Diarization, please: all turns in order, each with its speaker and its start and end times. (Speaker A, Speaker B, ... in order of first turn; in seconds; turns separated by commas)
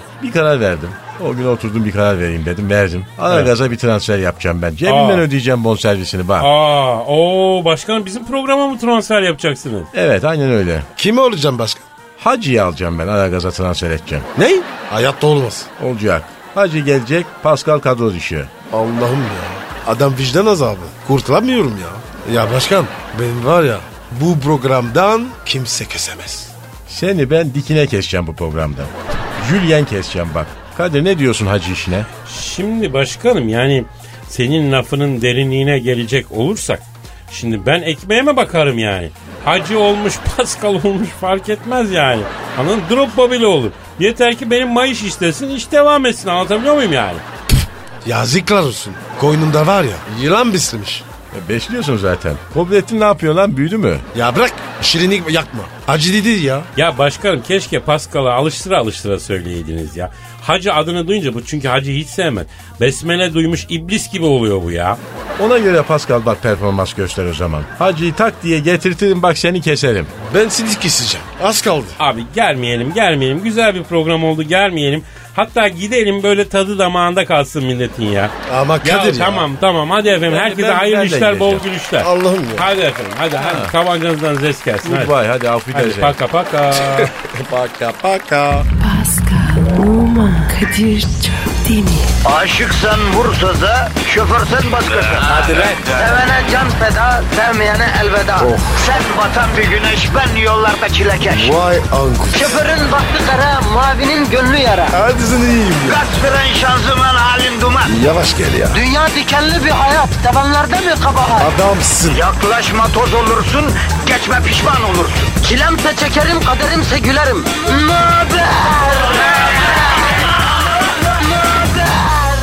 Speaker A: 0.2-6.5, Speaker B: 4.8-5.2, Speaker B: 6.4-9.9, Speaker A: 9.9-10.9, Speaker C: 11.0-11.9, Speaker A: 12.2-14.3, Speaker C: 14.3-15.7, Speaker A: 15.8-18.5, Speaker C: 18.7-26.5, Speaker A: 26.9-32.1, Speaker B: 32.2-47.2, Speaker C: 48.0-51.0, Speaker A: 51.3-54.0, Speaker C: 54.1-56.7, Speaker B: 56.8-65.0, Speaker A: 65.4-70.1, Speaker C: 70.2-72.0, Speaker B: 72.0-85.1, Speaker C: 78.4-79.5, Speaker A: 80.2-81.7, Speaker C: 82.0-82.7, Speaker A: 83.4-83.7, Speaker A: 84.8-86.2, Speaker B: 85.7-87.1, Speaker C: 86.7-88.7, Speaker D: 88.8-92.1, Speaker E: 92.2-101.7, Speaker C: 98.4-98.8, Speaker C: 101.3-102.6, Speaker E: 102.3-105.0, Speaker C: 104.9-106.0, Speaker E: 105.8-107.9, Speaker C: 107.8-108.8, Speaker E: 108.7-111.5, Speaker C: 111.4-112.2, Speaker E: 112.1-120.0, Speaker E: 120.9-122.2